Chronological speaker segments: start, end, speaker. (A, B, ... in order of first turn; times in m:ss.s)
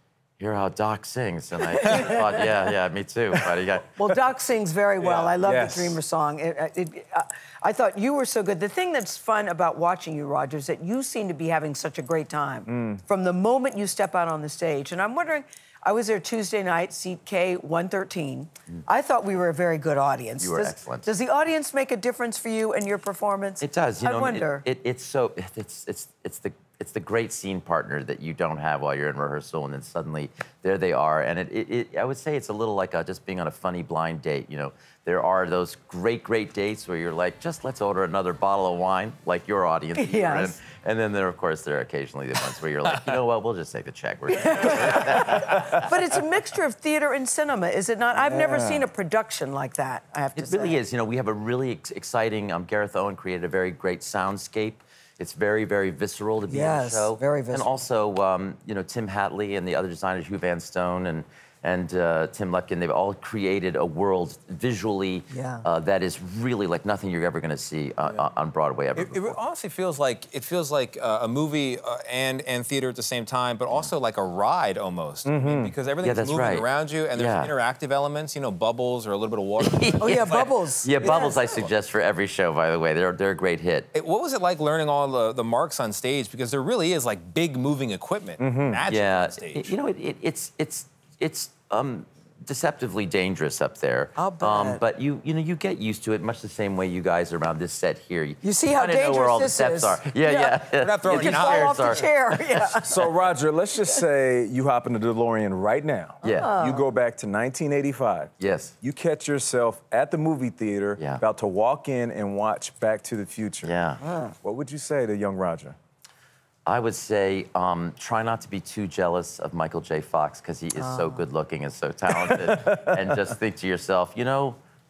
0:00.4-0:04.0 A
0:01.7-0:02.7 B
0:04.0-0:24.7 B
0:05.2-0:06.0 C
0:12.7-0:13.0 C
0:20.4-0:21.1 A
0:23.6-0:46.0 A
0:39.9-0:40.6 B
0:44.3-0:50.8 B
0:48.2-0:48.8 C
0:50.3-1:09.3 A
0:56.5-0:57.7 B
1:05.3-1:05.6 B
1:08.9-1:20.5 D
1:15.2-1:15.7 C
1:16.0-1:17.5 A
1:19.6-1:23.9 A
1:20.0-1:21.6 B
1:23.9-1:29.7 D
1:28.4-1:28.8 C
1:28.9-1:42.8 A
1:34.2-1:34.8 B
1:38.4-1:43.1 B
1:40.8-1:42.0 D
1:42.8-1:53.7 C
1:46.2-1:46.6 A
1:46.3-1:46.8 B
1:48.4-1:48.7 A
1:53.6-1:54.0 A
1:54.0-1:54.3 B
1:54.4-1:55.8 C
1:56.6-2:04.6 A
2:00.8-2:01.2 B
2:02.1-2:03.0 C